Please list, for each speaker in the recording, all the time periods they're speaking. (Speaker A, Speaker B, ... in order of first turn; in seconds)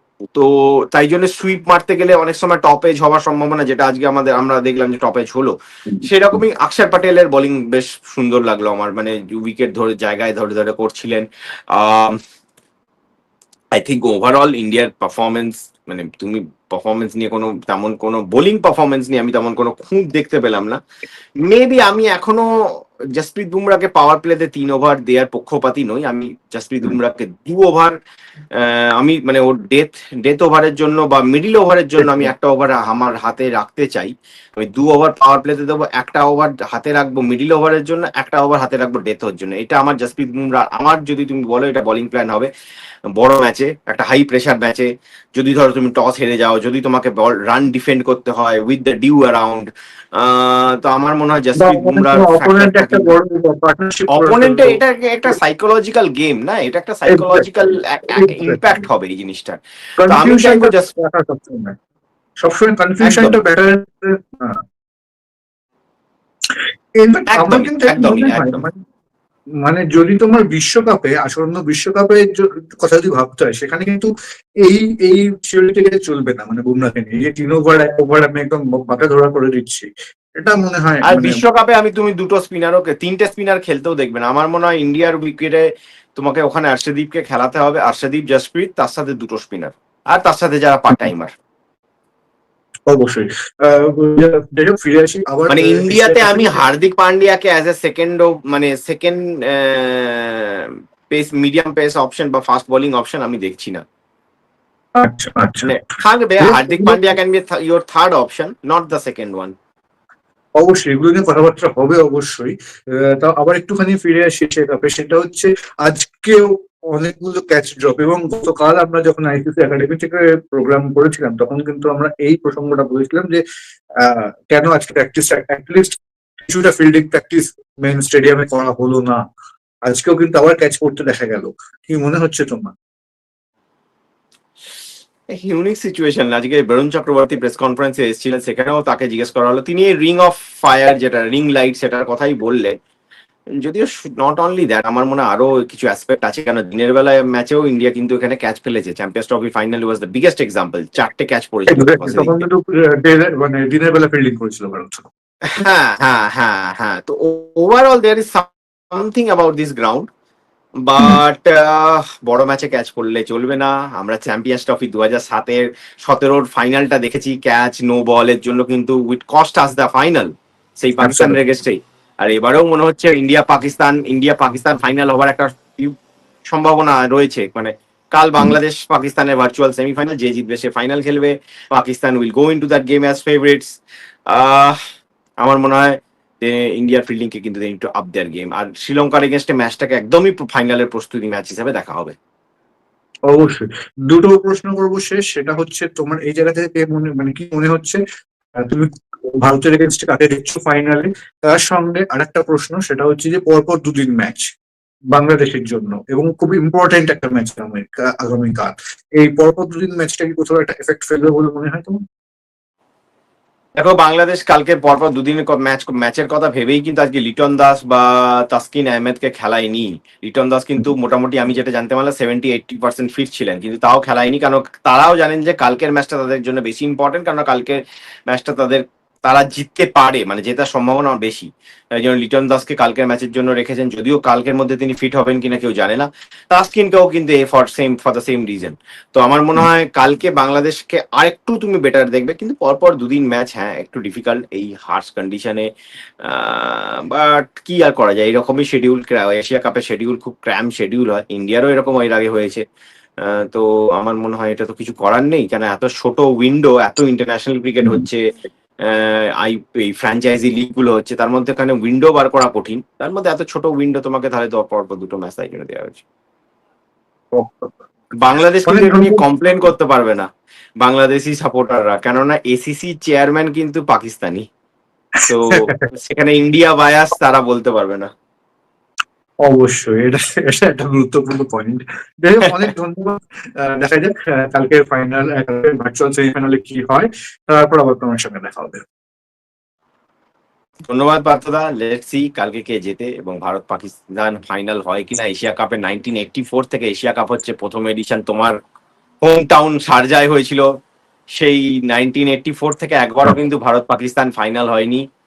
Speaker A: 0.3-12.2, 13.8-20.8, 21.4-22.5, 23.1-27.9, 28.6-42.5, 43.2-53.1, 54.1-60.9, 63.0-63.4, 67.3-68.6, 81.1-91.3, 95.5-103.8, 105.6-109.5, 135.3-142.8, 143.6-152.4, 155.5-160.1, 160.8-175.9, 176.5-183.8, 184.3-184.8, 185.4-192.1, 213.8-245.7, 246.2-252.6, 253.2-258.2, 258.9-266.0, 268.2-270.3, 270.8-274.4, 275.3-278.1, 290.9-298.6, 299.2-300.7, 301.4-305.1
Speaker B: 51.6-55.3, 57.1-58.8, 60.0-61.8, 62.4-64.6, 66.5-68.8, 69.6-74.1, 74.6-81.4, 92.9-96.6, 105.0-105.7, 106.4-107.2, 110.6-123.4, 124.0-129.2, 129.9-132.7, 151.7-155.1, 171.0-171.4, 193.3-198.0, 198.6-204.5, 205.1-212.0, 267.3-267.7, 268.7-269.2, 275.2-275.9, 279.4-288.8